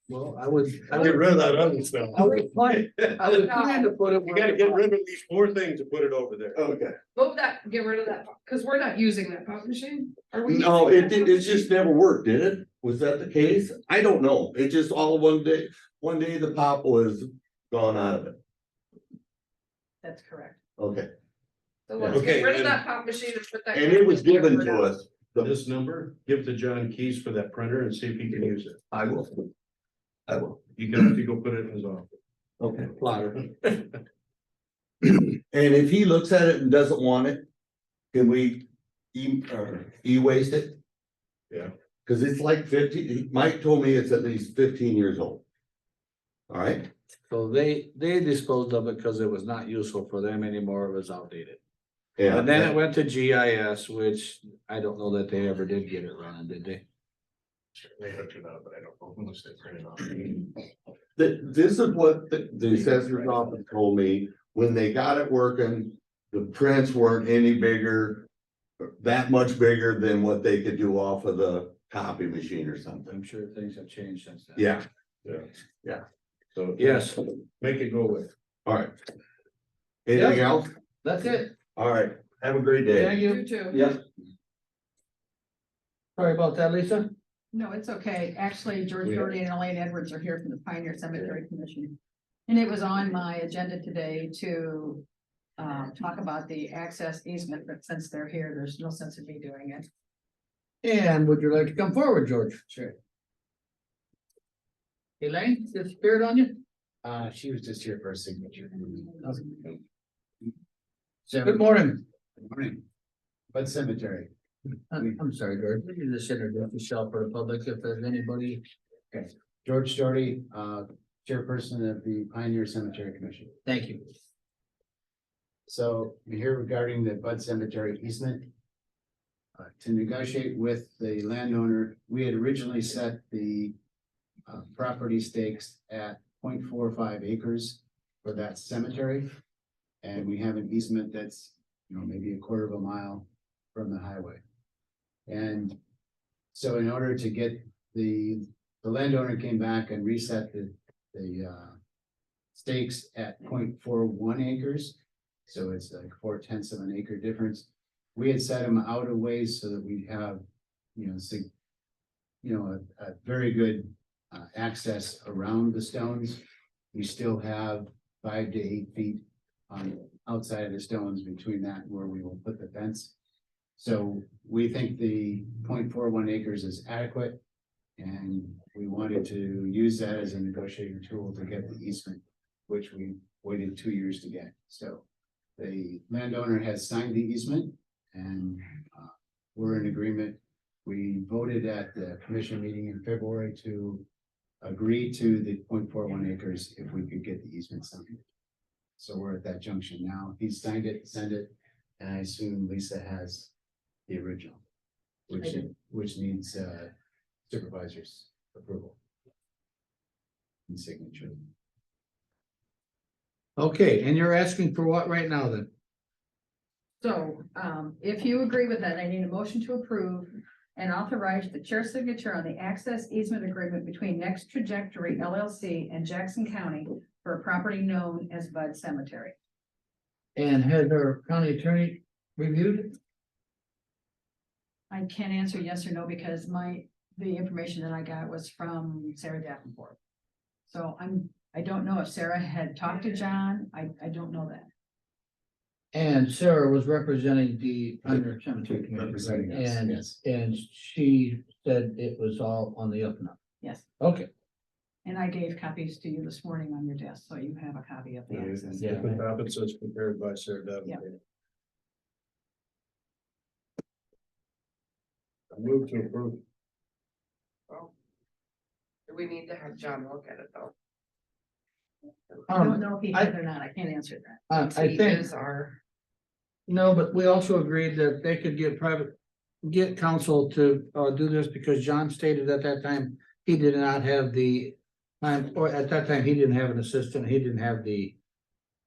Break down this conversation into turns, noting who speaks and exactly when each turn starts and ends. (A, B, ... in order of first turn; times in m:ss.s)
0:00.1-0:01.4 A
0:00.9-0:03.5 B
0:02.1-0:04.8 A
0:03.4-0:03.8 C
0:04.3-0:06.6 B
0:06.5-0:07.0 D
0:07.1-0:11.7 C
0:10.4-0:18.4 D
0:20.0-0:20.6 E
0:20.8-0:21.1 D
0:21.9-0:24.9 C
0:22.0-0:22.8 D
0:22.1-0:22.7 B
0:23.7-0:25.5 D
0:25.4-0:28.8 B
0:28.9-0:29.3 D
0:30.3-0:30.5 D
0:30.6-0:32.1 B
0:32.6-0:32.9 D
0:32.9-0:33.8 A
0:35.4-0:37.4 D
0:38.1-0:40.8 D
0:42.0-0:45.4 D
0:46.5-0:46.9 D
0:47.3-0:51.6 A
0:52.2-0:52.7 D
0:52.3-0:56.8 A
0:57.7-1:00.5 B
1:01.2-1:08.3 D
1:08.8-1:13.1 D
1:13.1-1:14.7 A
1:14.6-1:14.8 D
1:16.5-1:18.3 B
1:16.8-1:17.2 A
1:18.6-1:18.9 D
1:20.0-1:20.7 D
1:20.1-1:21.5 A
1:21.8-1:23.1 D
1:22.9-1:23.9 A
1:23.2-1:23.8 E
1:26.2-1:27.1 A
1:27.5-1:35.0 E
1:35.6-1:39.9 E
1:40.8-1:42.6 A
1:45.2-1:46.6 A
1:47.0-1:49.8 F
1:51.3-1:51.7 F
1:51.4-1:52.0 A
1:52.4-1:52.8 F
1:53.5-1:54.3 F
1:54.9-1:58.6 A
1:59.1-2:03.5 F
2:03.6-2:04.0 A
2:05.7-2:08.5 F
2:09.6-2:13.7 F
2:14.5-2:19.3 F
2:20.0-2:24.4 F
2:25.3-2:25.8 F
2:26.5-2:31.8 F
2:32.5-2:40.4 F
2:40.9-2:41.5 F
2:42.4-2:46.4 F
2:46.9-2:53.1 F
2:53.8-2:57.4 F
2:58.0-3:05.0 F
3:05.6-3:14.0 F
3:14.6-3:18.2 F
3:19.0-3:23.5 F
3:24.1-3:24.6 F
3:25.3-3:26.9 F
3:27.5-3:29.0 F
3:30.7-3:31.4 F
3:33.6-3:35.7 A
3:37.0-3:49.4 E
3:50.4-3:53.0 A
3:54.9-4:00.0 E
4:00.7-4:04.7 E
4:05.9-4:13.4 A
4:08.9-4:10.2 F
4:13.6-4:13.8 E
4:14.0-4:14.3 A
4:15.0-4:19.1 E
4:18.3-4:21.2 B
4:18.8-4:19.1 A
4:25.5-4:26.4 B
4:29.1-4:30.7 C
4:32.5-4:33.3 A
4:32.5-4:34.4 E
4:34.5-4:35.3 A
4:34.7-4:35.8 C
4:36.7-4:48.2 A